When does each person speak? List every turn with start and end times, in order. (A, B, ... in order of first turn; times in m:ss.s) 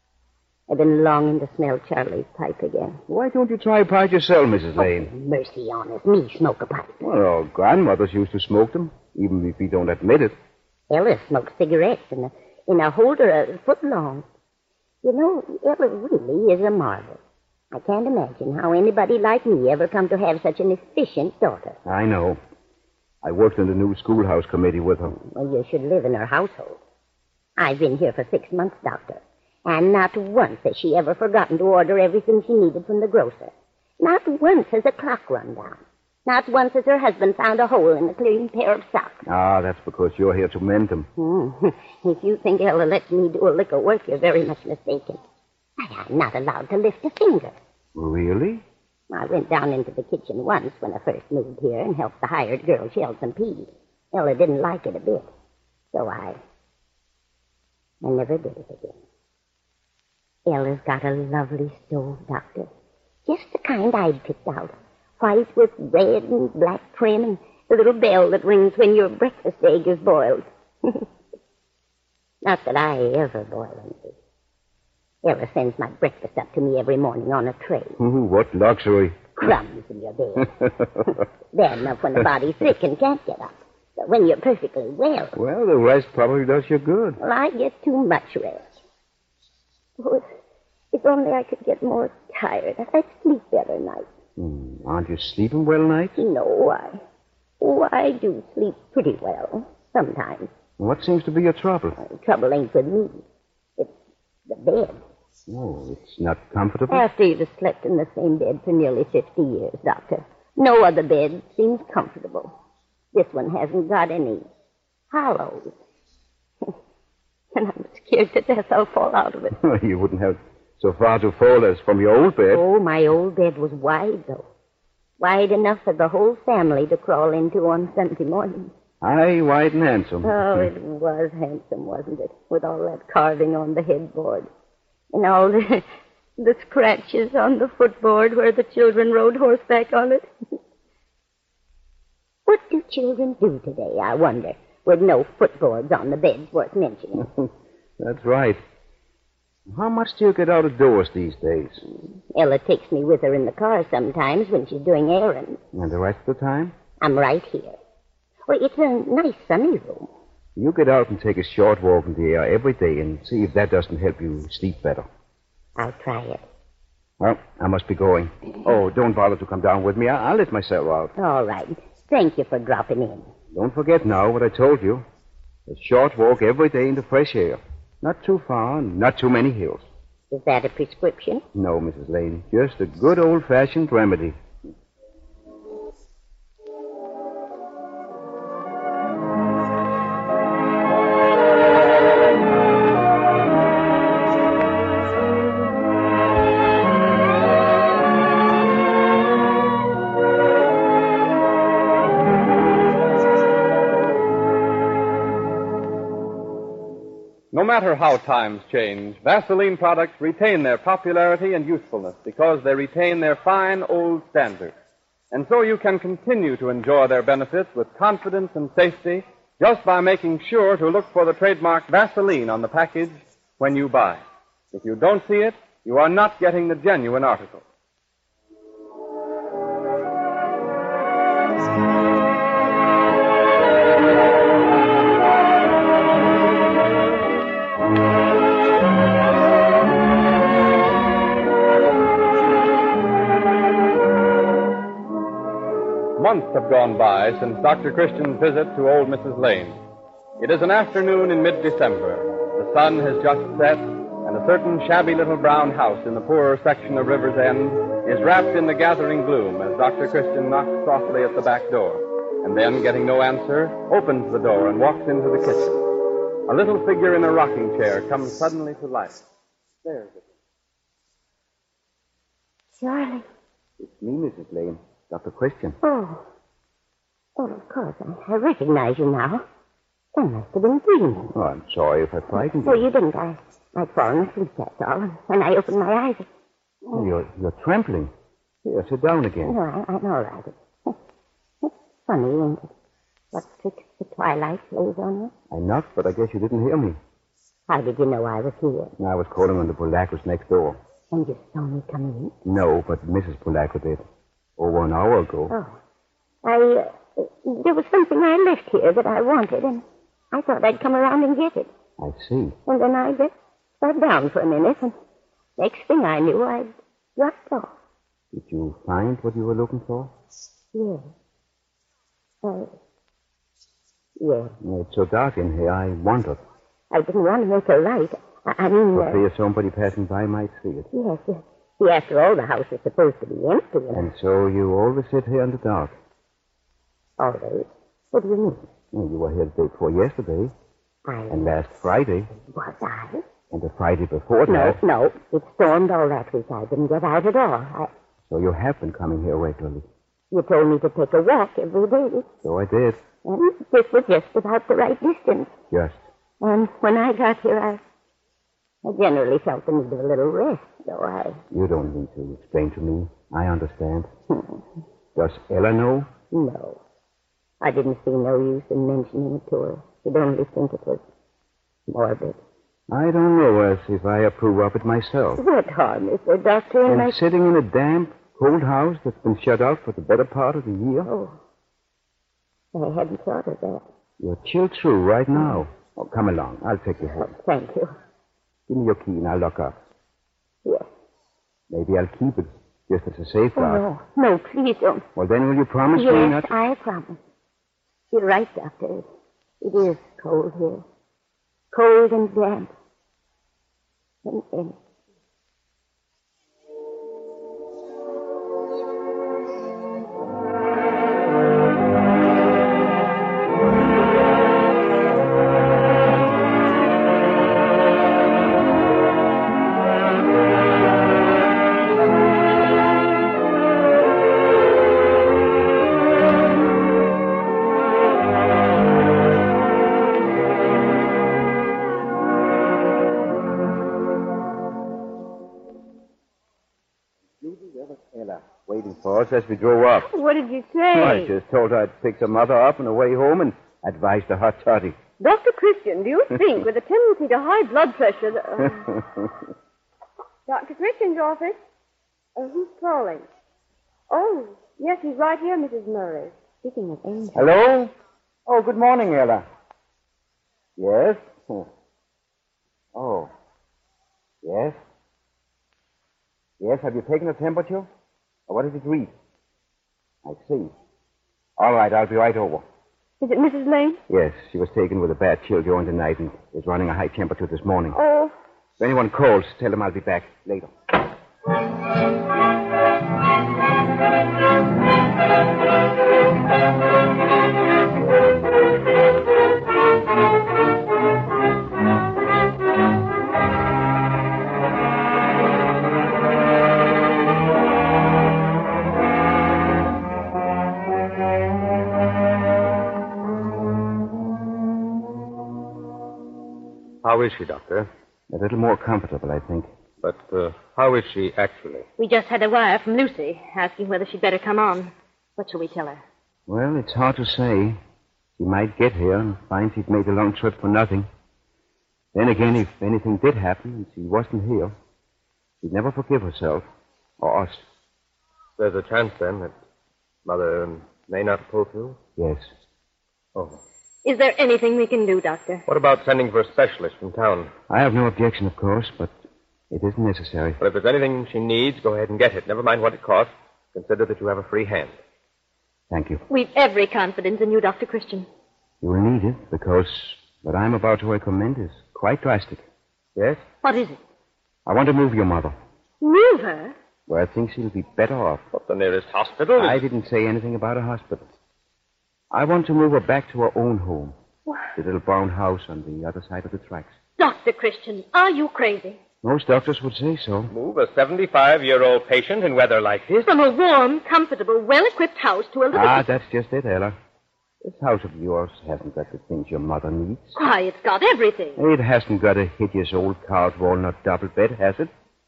0:00.7-0:03.0 A
0:03.1-0:05.1 B
0:04.8-0:07.0 A
0:07.0-0:10.4 B
0:10.9-0:14.2 A
0:15.0-0:17.2 A
0:17.7-0:21.8 A
0:21.8-0:22.4 B
0:23.2-0:25.2 B
0:25.1-0:26.8 A
0:27.6-0:39.2 A
0:39.2-0:41.1 B
0:41.2-0:45.2 A
0:45.8-0:47.6 A
0:48.0-0:48.6 B
0:49.1-0:55.3 A
0:55.9-0:56.4 A
0:58.0-0:59.0 A
1:00.5-1:02.7 A
1:03.3-1:11.1 A
1:12.4-1:14.2 A
1:15.2-1:18.0 A
1:18.0-1:19.4 B
1:19.4-1:20.5 A
1:21.1-1:25.4 A
1:25.4-1:27.2 B
1:27.2-1:28.7 A
1:30.0-1:30.3 A
1:30.9-1:34.1 A
1:34.4-1:36.2 B
1:36.2-1:37.0 A
1:37.6-1:40.5 A
1:40.8-1:42.0 B
1:42.0-1:43.2 A
1:44.5-1:45.0 A
1:45.5-1:47.1 B
1:46.9-1:52.5 A
1:53.1-1:54.5 A
1:55.1-1:55.8 A
1:57.5-1:59.6 A
1:59.6-2:02.6 B
2:02.5-2:04.5 A
2:05.2-2:08.7 A
2:09.0-2:10.7 B
2:10.2-2:14.5 A
2:15.1-2:15.9 A
2:16.4-2:20.3 A
2:22.5-2:27.3 A
2:27.2-2:28.6 B
2:29.7-2:31.8 B
2:32.3-2:35.6 A
2:35.7-2:36.8 B
2:37.0-2:37.8 A
2:38.5-2:40.1 A
2:40.6-2:45.1 B
2:45.8-2:46.4 A
2:47.2-2:51.1 B
2:51.2-2:53.3 A
2:53.5-2:55.0 B
2:55.7-2:59.9 B
3:00.3-3:01.4 A
3:01.5-3:04.4 B
3:27.5-3:34.7 C
3:35.3-3:44.2 C
3:44.7-3:47.6 C
4:06.2-4:09.8 C
4:10.4-4:25.8 C
4:26.5-4:29.2 C
4:29.8-4:30.2 B
4:32.8-4:33.2 A
4:33.8-4:35.8 B
4:35.8-4:36.3 A
4:37.4-4:39.4 A
4:40.2-4:41.3 A
4:41.3-4:42.9 B
4:42.6-4:46.3 A
4:46.9-4:48.1 B
4:48.6-4:49.6 B
4:49.4-4:51.0 A
4:51.6-4:52.7 A
4:53.3-4:55.3 A
4:55.5-4:57.0 B
4:57.7-4:58.9 A
4:59.0-5:00.8 B
5:01.1-5:02.3 A
5:02.4-5:04.0 B
5:04.6-5:05.5 B
5:05.5-5:05.8 A
5:06.4-5:11.7 A
5:12.0-5:12.6 B
5:12.7-5:15.0 A
5:15.6-5:17.7 A
5:18.3-5:20.1 B
5:20.7-5:21.1 A
5:22.4-5:22.7 A
5:24.2-5:24.5 A
5:24.6-5:26.4 B
5:26.9-5:29.2 A
5:28.9-5:30.9 B
5:30.9-5:34.1 A
5:33.9-5:35.9 B
5:37.2-5:38.7 A
5:38.9-5:40.5 B
5:41.1-5:41.5 A
5:41.3-5:42.3 B
5:42.4-5:43.2 A
5:43.5-5:44.8 B
5:44.5-5:47.9 A
5:48.3-5:49.8 B
5:50.3-5:52.3 A
5:52.4-5:53.0 B
5:53.2-5:55.5 A
5:55.7-5:56.0 B
5:56.4-5:57.8 A
5:58.8-6:01.4 A
6:01.5-6:04.1 B
6:04.3-6:04.6 A
6:05.2-6:06.1 B
6:06.3-6:06.8 A
6:07.6-6:11.0 A
6:11.9-6:12.4 A
6:12.9-6:15.4 B
6:15.4-6:17.2 A
6:16.9-6:21.1 B
6:21.0-6:21.4 A
6:22.7-6:23.8 A
6:24.2-6:27.3 B
6:27.2-6:27.9 A
6:28.7-6:29.8 B
6:31.7-6:33.8 B
6:33.6-6:35.1 A
6:35.2-6:36.5 B
6:36.0-6:37.2 A
6:38.1-6:39.1 A
6:39.6-6:40.8 A
6:41.7-6:42.7 A
6:44.2-6:44.8 A
7:17.4-7:20.1 B
7:20.0-7:21.3 D
7:21.0-7:25.0 B
7:25.2-7:29.0 D
7:30.5-7:31.6 D
7:32.4-7:33.2 D
7:34.1-7:36.3 D
7:36.6-7:37.5 A
7:37.3-7:37.9 B
7:38.5-7:39.5 B
7:40.8-7:41.7 B
7:43.0-7:43.3 B
7:44.4-7:44.8 B
7:46.6-7:47.9 B
7:48.5-7:49.1 B
7:50.2-7:50.7 B
7:51.6-7:52.6 B
7:53.2-7:54.0 D
7:54.1-7:58.0 B
7:57.9-7:58.3 D
7:58.8-8:00.7 B
8:27.0-8:27.9 E
8:28.3-8:29.7 B
8:30.0-8:31.9 E
8:32.0-8:36.0 F
8:36.5-8:37.8 B
8:38.4-8:41.1 B
8:42.1-8:44.7 B
8:45.6-8:46.7 B
8:47.2-8:47.7 B
8:48.6-8:49.5 E
8:50.2-8:52.0 E
8:52.2-8:52.5 B
8:54.0-8:55.6 F
8:55.7-8:57.5 E
8:57.7-8:59.1 B
8:59.7-9:00.6 B
9:00.6-9:05.0 E
9:05.9-9:06.2 B
9:06.3-9:08.3 F
9:08.8-9:12.6 B
9:13.6-9:14.0 F
9:14.7-9:15.5 B
9:16.0-9:16.8 F
9:17.1-9:18.4 B
9:18.5-9:19.8 E
9:19.6-9:21.2 B
9:22.3-9:24.2 B
9:24.8-9:26.9 B
9:27.2-9:29.0 F
9:29.2-9:30.5 B
9:30.5-9:33.3 E
9:33.2-9:36.1 F
9:35.7-9:37.0 B
9:37.6-9:40.4 B
9:40.4-9:41.6 F
9:41.6-9:44.9 B